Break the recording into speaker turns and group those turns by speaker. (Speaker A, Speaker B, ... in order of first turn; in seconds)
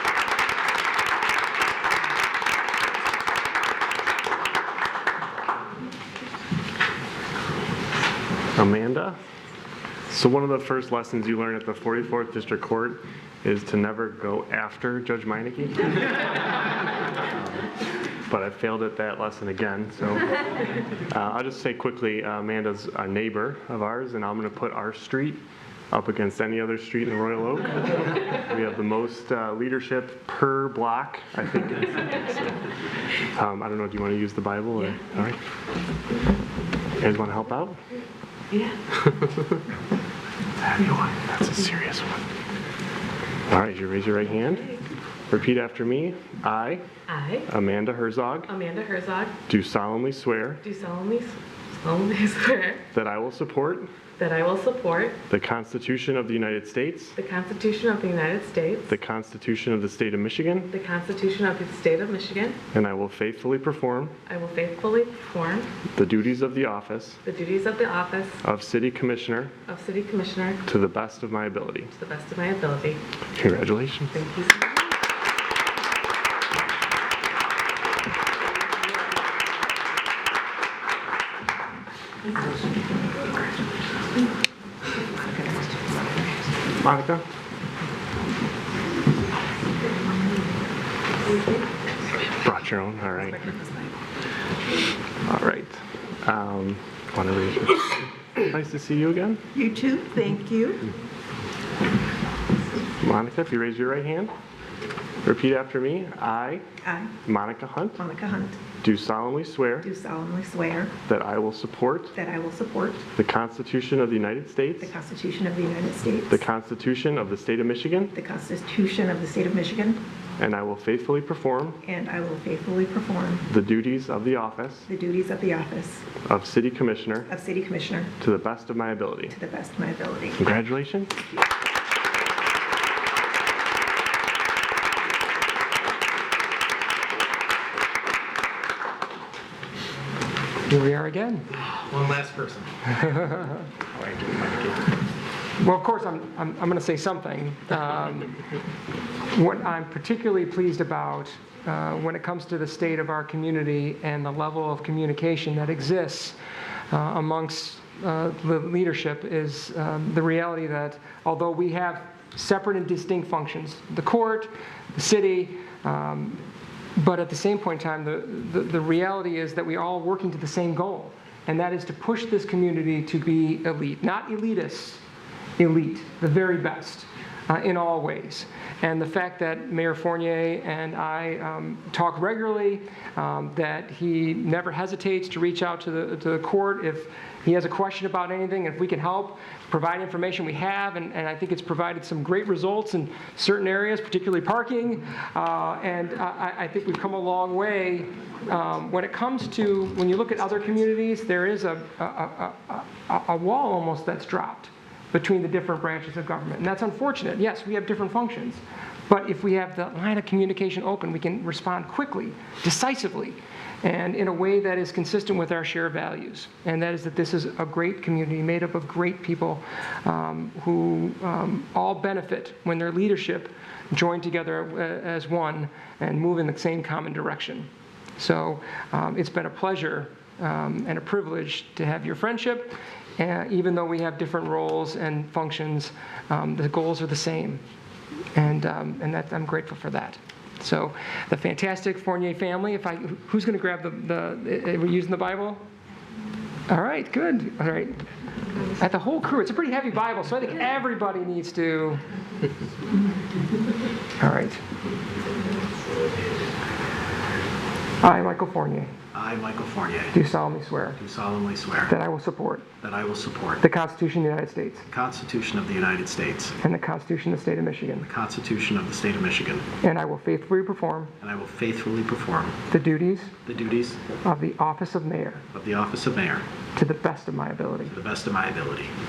Speaker A: 8.6-9.2, 10.1-16.1, 17.3-17.7, 18.3-20.4, 21.1-32.5, 33.3-35.4, 37.0-37.8, 40.6-42.2, 43.5-44.7, 45.3-46.8, 47.5-48.5, 49.5-50.6, 52.9-53.9, 55.3-57.2, 58.9-60.7, 62.7-64.2, 66.0-67.2, 68.4-69.5, 70.7-71.9, 73.3-74.1, 86.8-87.2, 92.4-93.4, 95.3-99.4, 103.0-104.3, 105.2-106.6, 107.2-108.0, 108.8-109.9, 111.1-112.1, 113.2-114.9, 116.3-118.1, 120.4-121.8, 123.5-124.9, 126.2-127.3, 128.2-129.3, 130.4-131.1
Speaker B: 38.5-38.8, 44.4-44.8, 47.1-47.5, 48.5-49.3, 50.6-52.8, 54.2-55.2, 57.2-58.9, 60.7-62.6, 64.3-65.7, 67.2-68.4, 69.7-70.6, 71.9-73.0, 74.1-74.7
Speaker C: 85.1-86.5, 93.2-93.9, 99.5-100.9, 106.8-107.1, 108.0-108.6, 109.8-110.9, 112.1-113.0, 114.8-116.4, 118.1-120.0, 121.8-123.4, 124.9-126.0, 127.3-128.1, 129.3-130.4
Speaker D: 140.7-141.5, 145.6-148.4, 149.2-156.4, 156.9-166.4, 166.9-175.0, 175.6-237.6, 238.3-245.6, 246.7-248.0, 248.6-252.0, 254.2-254.6, 258.0-258.9, 260.1-261.0, 261.9-262.7, 263.6-264.8, 266.6-268.1, 269.8-271.1, 272.7-273.3, 274.2-275.4, 276.7-278.0
Speaker E: 141.6-142.9, 143.9-144.9, 259.1-260.1, 261.0-261.9, 262.8-263.6, 264.9-266.5, 268.0-269.6, 271.2-272.6, 273.4-274.0, 275.5-276.4, 277.9-278.9